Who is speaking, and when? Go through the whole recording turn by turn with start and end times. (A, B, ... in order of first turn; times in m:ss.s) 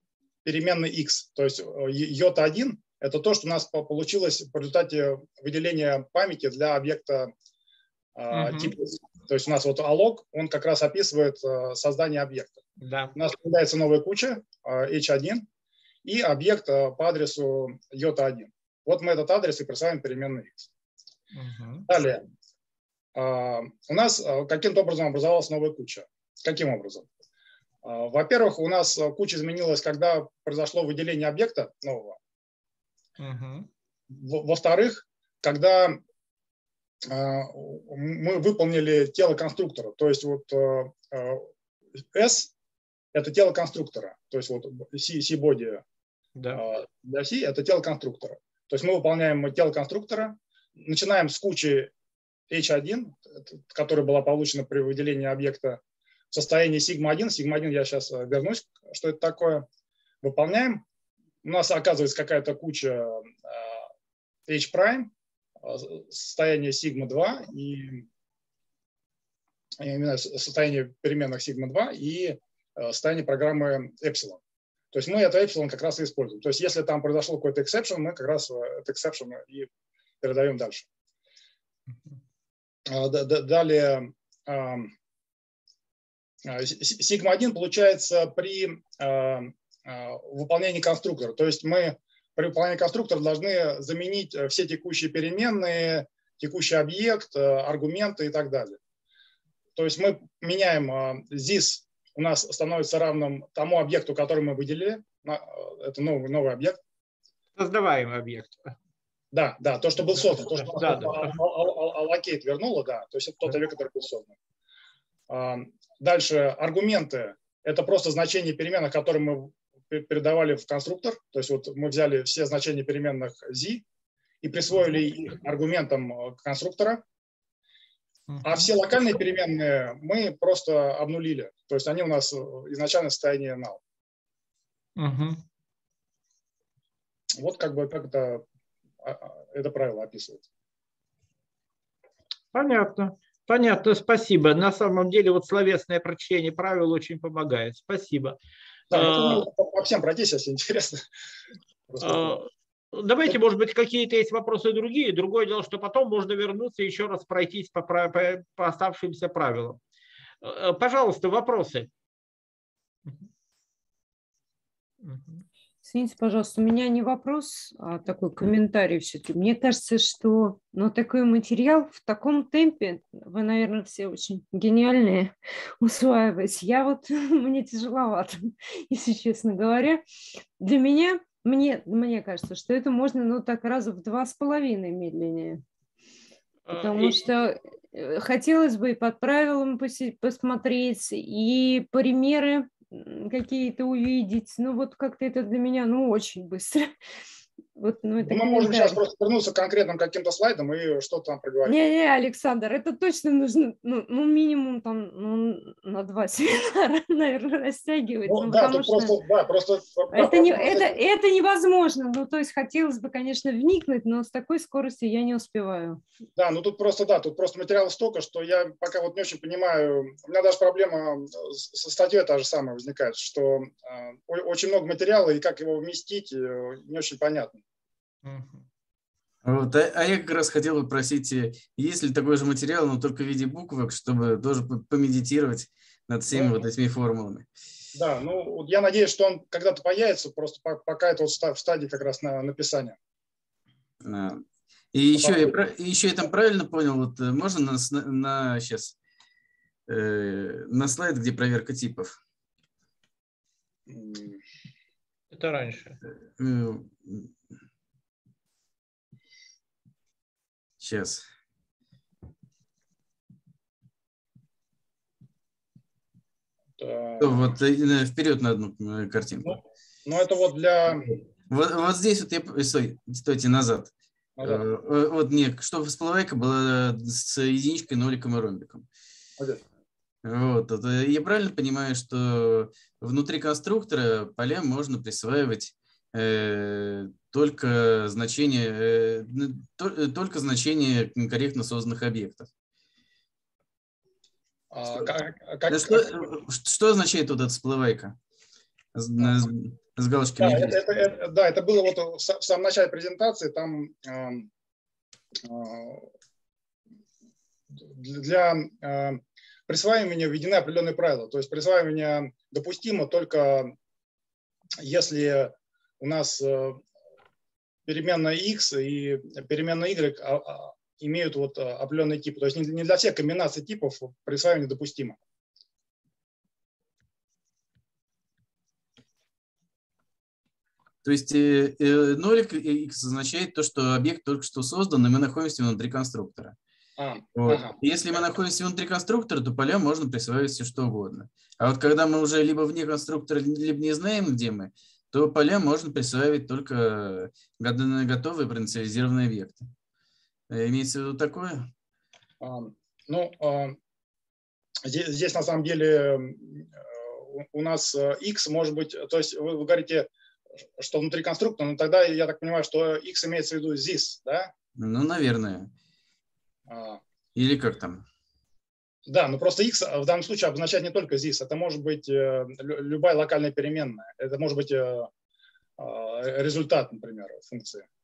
0:00.4-0:07.3 A
0:08.2-0:12.6 A
0:08.3-0:08.7 B
0:12.8-0:13.1 B
0:13.1-0:15.4 A
0:16.0-0:20.7 A
0:21.3-0:21.9 B
0:21.9-0:22.2 A
0:23.1-0:27.1 A
0:27.8-0:32.2 A
0:33.2-0:33.7 B
0:34.1-0:36.0 A
0:37.0-0:41.5 A
0:42.1-0:42.5 A
0:43.1-0:45.8 A
0:46.4-0:46.6 B
0:46.5-0:51.9 A
0:52.5-0:59.7 A
1:00.2-1:00.8 A
1:01.4-1:03.8 A
1:04.5-1:08.1 A
1:09.8-1:14.4 A
1:14.9-1:19.7 A
1:20.2-1:20.9 A
1:22.9-1:24.9 A
1:26.4-1:38.8 A
1:39.8-1:46.8 A
1:47.6-1:48.7 B
1:49.3-1:54.3 A
1:50.4-1:51.3 B
1:55.3-2:03.8 A
2:04.4-2:07.0 A
2:08.3-2:08.6 B
2:08.4-2:13.8 A
2:15.0-2:15.4 B
2:17.4-2:18.4 A
2:19.0-2:20.4 A
2:22.5-2:28.4 B
2:28.9-2:29.4 B
2:28.9-2:31.0 A
2:31.9-2:32.4 A
2:32.0-2:39.8 B
2:40.4-2:41.9 B
2:45.0-2:45.4 B
2:45.8-3:00.0 C
3:00.6-3:05.6 C
3:06.7-3:07.2 B
3:06.7-3:16.9 C
3:17.8-3:19.0 C
3:18.2-3:21.8 A
3:21.6-3:29.2 C
3:28.3-3:30.9 A
3:30.1-3:36.0 C
3:36.4-3:47.6 A
3:48.2-3:48.6 B
3:49.4-3:57.5 D
3:56.3-3:56.6 A
3:57.9-4:03.0 A
4:04.0-4:04.4 D
4:04.9-4:08.9 D
4:05.2-4:05.5 A
4:09.9-4:12.1 D
4:13.9-4:14.4 A
4:15.3-4:16.0 B
4:16.4-4:17.3 D
4:20.8-4:21.2 D
4:26.8-4:27.5 A
4:27.2-4:29.5 D
4:29.4-4:31.1 A
4:31.5-4:38.8 D
4:34.4-4:34.6 A
4:40.2-4:52.5 D
4:54.7-4:56.1 A
4:55.7-4:58.2 D
4:58.9-5:00.8 D
5:00.4-5:04.5 A
5:05.4-5:06.1 A
5:07.7-5:13.7 A
5:14.8-5:16.8 A
5:17.8-5:25.2 A
5:31.0-5:36.6 D
5:37.0-5:37.8 A
5:37.3-5:49.7 D
5:50.5-5:51.7 D
5:52.4-5:53.8 A
5:54.8-6:00.1 A
6:00.8-6:04.5 A
6:04.8-6:05.7 D
6:06.7-6:07.0 A
6:07.3-6:08.0 D
6:09.1-6:15.1 A
6:15.8-6:17.8 A